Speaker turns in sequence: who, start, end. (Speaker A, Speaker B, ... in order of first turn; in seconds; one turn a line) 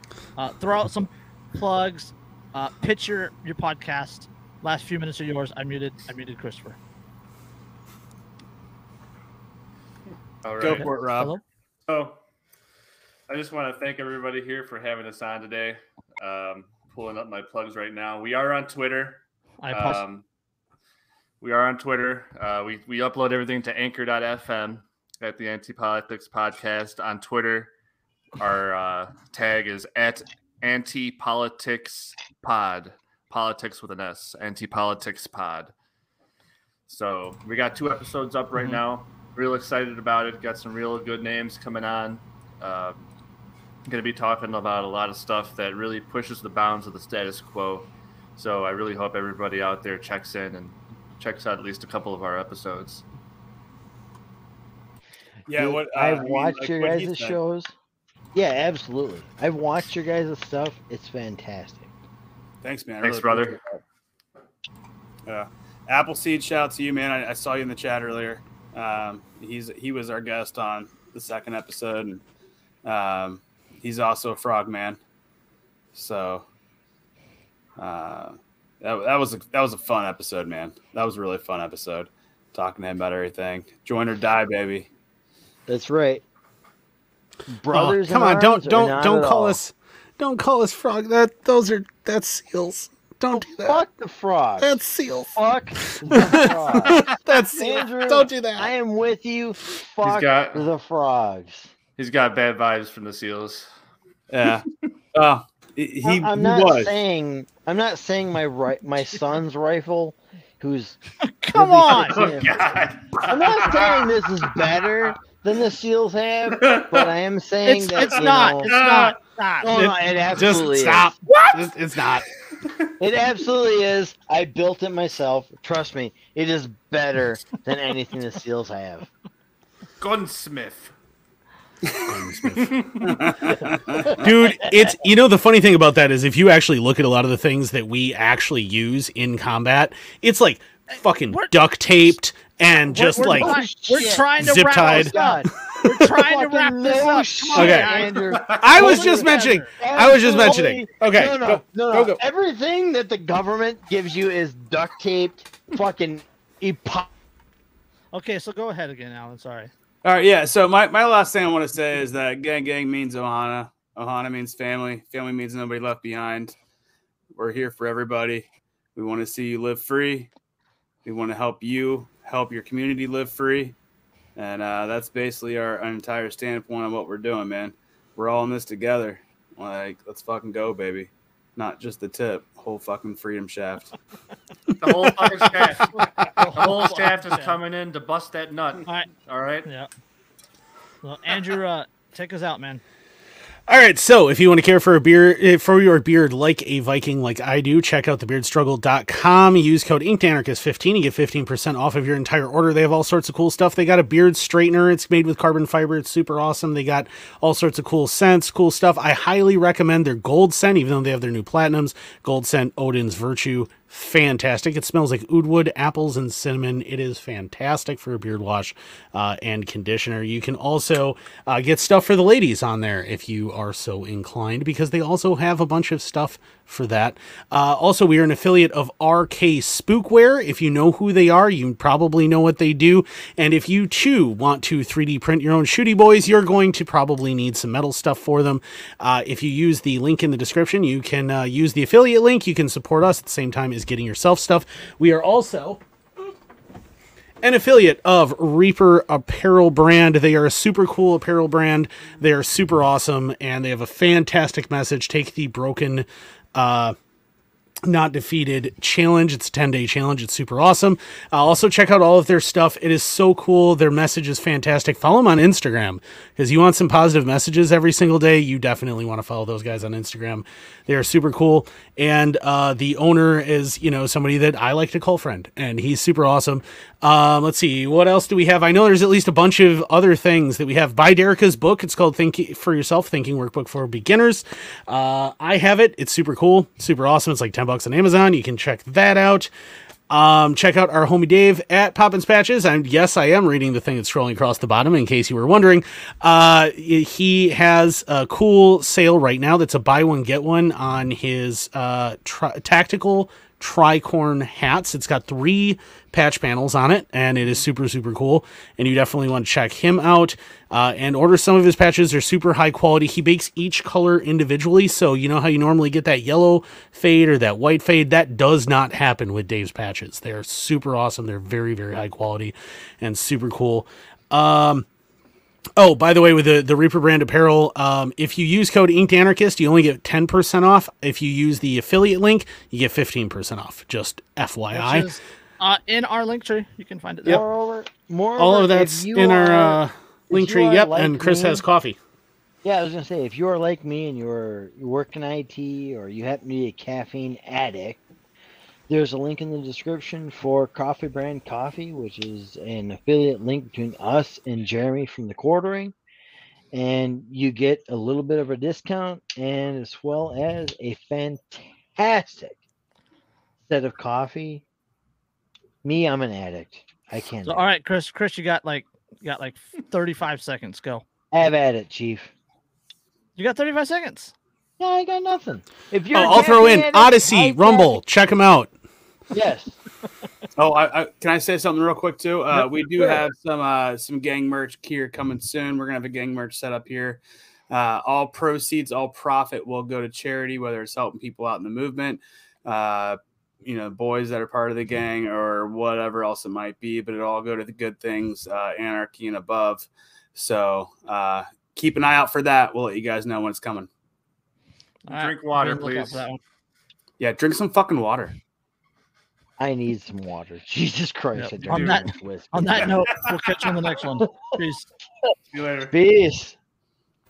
Speaker A: 0.4-6.8
Speaker B: 10.4-10.9
Speaker C: 10.6-11.3
Speaker A: 10.6-11.4
Speaker B: 11.9-12.2
Speaker B: 13.3-20.2
Speaker A: 19.6-20.0
Speaker B: 21.4-27.7
Speaker B: 28.4-35.7
Speaker B: 36.9-43.0
Speaker B: 43.9-53.0
Speaker C: 55.5-57.4
Speaker D: 55.5-57.7
Speaker D: 58.3-61.9
Speaker C: 62.6-63.8
Speaker B: 63.0-63.6
Speaker C: 65.3-72.2
Speaker C: 72.8-75.0
Speaker C: 75.9-76.4
Speaker C: 77.8-84.9
Speaker D: 85.7-86.2
Speaker D: 87.5-89.6
Speaker E: 87.7-93.8
Speaker D: 93.3-94.7
Speaker E: 94.6-95.3
Speaker D: 95.3-101.7
Speaker E: 95.9-98.7
Speaker B: 96.9-97.1
Speaker B: 100.0-100.6
Speaker B: 102.0-103.7
Speaker C: 104.3-107.0
Speaker D: 106.0-111.0
Speaker A: 111.2-112.2
Speaker D: 111.5-112.7
Speaker B: 112.1-114.2
Speaker D: 113.3-118.7
Speaker B: 116.6-117.1
Speaker A: 117.6-120.0
Speaker B: 118.0-119.2
Speaker D: 119.6-121.1
Speaker E: 120.3-122.2
Speaker A: 121.2-121.7
Speaker D: 123.0-129.1
Speaker B: 130.0-130.9
Speaker E: 132.1-132.8
Speaker B: 132.5-133.6
Speaker C: 133.0-134.2
Speaker D: 134.1-134.7
Speaker E: 134.2-145.1
Speaker A: 140.9-142.1
Speaker A: 142.8-149.7
Speaker D: 143.2-157.1
Speaker E: 147.5-152.2
Speaker B: 148.3-148.7
Speaker A: 158.1-159.7
Speaker C: 160.0-166.5
Speaker C: 167.3-170.3
Speaker C: 171.0-173.7
Speaker C: 174.3-183.9
Speaker B: 184.8-189.7
Speaker A: 185.7-187.6
Speaker A: 191.0-192.8
Speaker E: 193.7-245.8
Speaker E: 247.4-256.9
Speaker E: 257.8-289.5
Speaker E: 290.1-324.9
Speaker E: 325.8-335.1
Speaker A: 334.7-337.4
Speaker D: 337.2-341.6
Speaker E: 338.4-342.0
Speaker D: 342.6-348.0
Speaker D: 348.9-355.9
Speaker D: 356.7-362.6
Speaker D: 363.7-364.6
Speaker D: 365.8-367.6
Speaker A: 367.4-371.0
Speaker D: 371.3-372.3
Speaker A: 373.4-374.3
Speaker D: 374.8-378.0
Speaker E: 376.1-378.7
Speaker D: 379.3-379.8
Speaker C: 380.6-387.2
Speaker D: 382.5-383.2
Speaker C: 387.7-403.9
Speaker A: 405.1-406.4
Speaker B: 405.1-406.2
Speaker C: 407.2-408.3
Speaker D: 409.6-413.0
Speaker A: 411.3-414.9
Speaker B: 411.6-412.1
Speaker B: 412.7-413.3
Speaker B: 415.5-415.9
Speaker D: 415.9-416.5